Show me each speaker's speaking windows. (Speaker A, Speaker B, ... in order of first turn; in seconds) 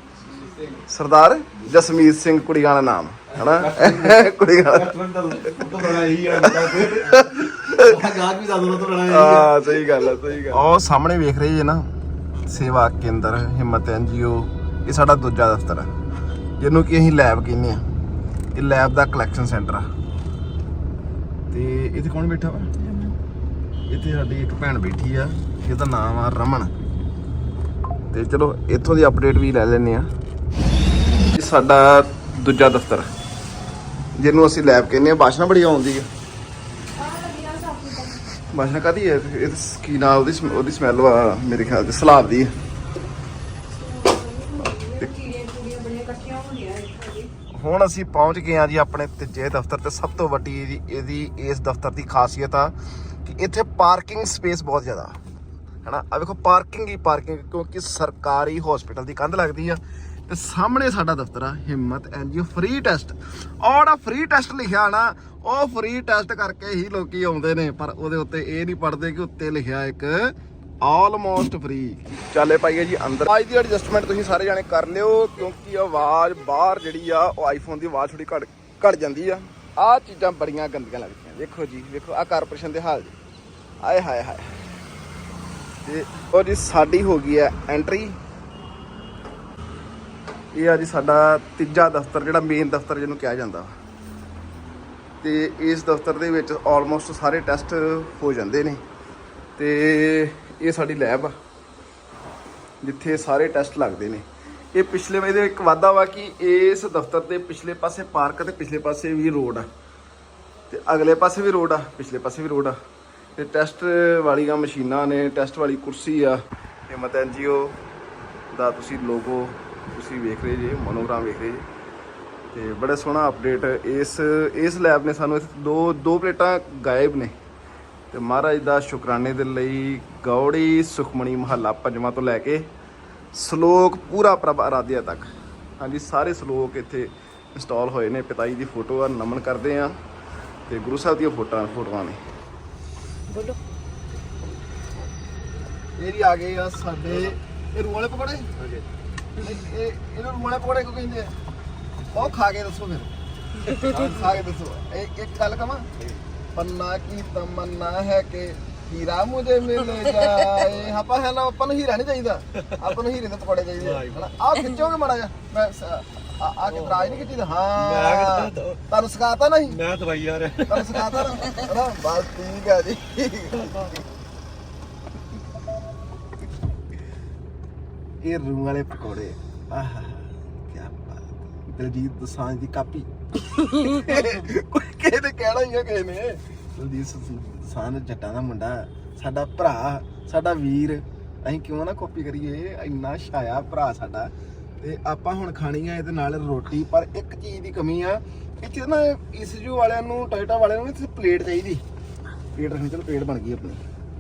Speaker A: 0.1-0.9, 3.3-10.7, 148.6-148.9, 153.7-154.4, 163.8-164.2, 166.7-168.8, 169.7-171.5, 173.6-174.0
Speaker B: 0.9-5.0, 6.3-8.0, 9.0-11.8, 12.5-15.9, 16.6-17.8, 18.5-19.9, 21.5-22.7, 23.9-26.7, 28.1-30.1, 31.3-33.1, 34.2-36.1, 38.5-42.5, 47.5-55.2, 55.9-83.2, 83.8-84.6, 85.8-88.2, 90.5-93.8, 95.2-98.8, 99.6-101.4, 102.8-109.7, 110.7-112.8, 113.4-117.8, 118.5-121.7, 122.5-127.3, 128.1-132.7, 133.3-140.0, 140.7-142.2, 146.0-148.5, 149.4-151.3, 152.1-153.1, 153.9-155.9, 156.6-169.8, 170.7-174.0, 178.2-183.1, 183.6-201.8, 202.6-203.8
Speaker C: 22.8-23.1, 37.0-38.2, 43.7-47.3, 143.3-143.6, 183.8-184.4